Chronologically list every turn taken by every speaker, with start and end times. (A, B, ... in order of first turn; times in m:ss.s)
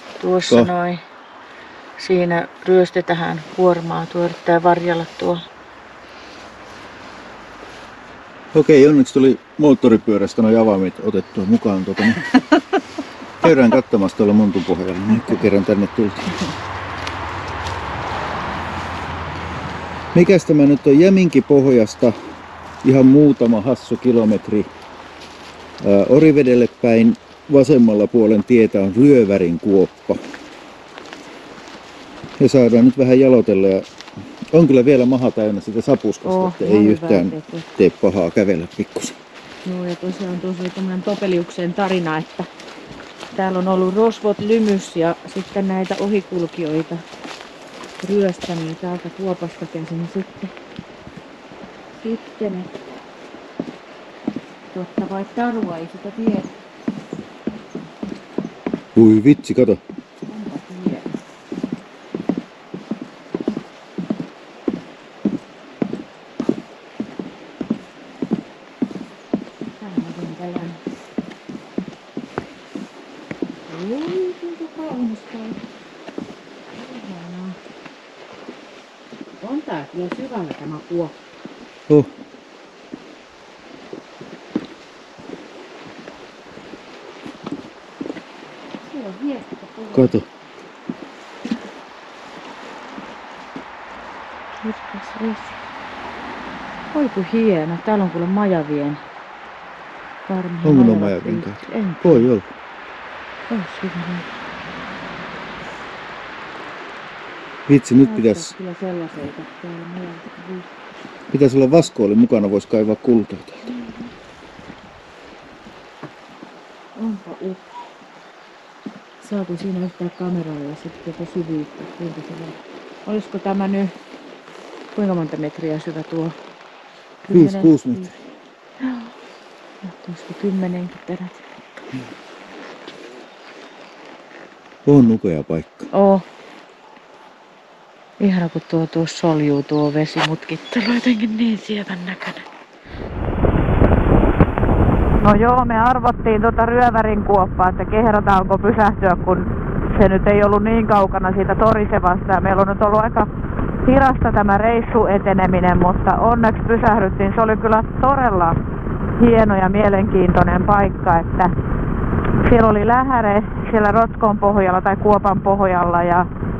0:00.2-0:01.0 A
0:02.0-0:05.4 A
0:08.5-0:12.2 B
0:13.4-0:16.4 B
0:20.1-0:22.1 B
0:22.8-0:24.7 B
0:25.8-0:30.2 B
0:32.4-0:33.8 B
0:34.5-0:39.2 B
0:36.2-0:37.6 A
0:39.6-0:42.5 A
0:43.3-0:47.0 A
0:48.0-0:50.5 A
0:52.0-0:52.7 A
0:54.7-0:56.5 A
0:58.9-0:59.8 B
1:00.2-1:01.1 A
1:09.8-1:10.8 A
1:13.7-1:15.6 A
1:16.7-1:17.6 A
1:19.4-1:21.1 A
1:28.8-1:30.1 A
1:29.9-1:30.2 B
1:34.6-1:35.5 A
1:36.9-1:39.0 A
1:40.3-1:42.3 A
1:40.6-1:42.5 B
1:43.5-1:44.3 A
1:47.7-1:48.5 B
1:48.0-1:50.7 A
1:51.3-1:53.6 B
1:53.7-1:54.1 A
1:57.0-1:57.7 A
1:59.2-2:02.5 A
2:03.0-2:03.9 A
2:04.9-2:06.4 A
2:07.3-2:08.1 A
2:07.3-2:08.1 B
2:08.8-2:09.1 A
2:09.8-2:11.8 A
2:14.8-2:15.9 B
2:15.9-2:16.2 A
2:18.2-2:22.4 A
2:25.2-2:33.3 C
2:33.8-2:38.6 C
2:39.2-2:41.5 C
2:42.4-2:46.3 C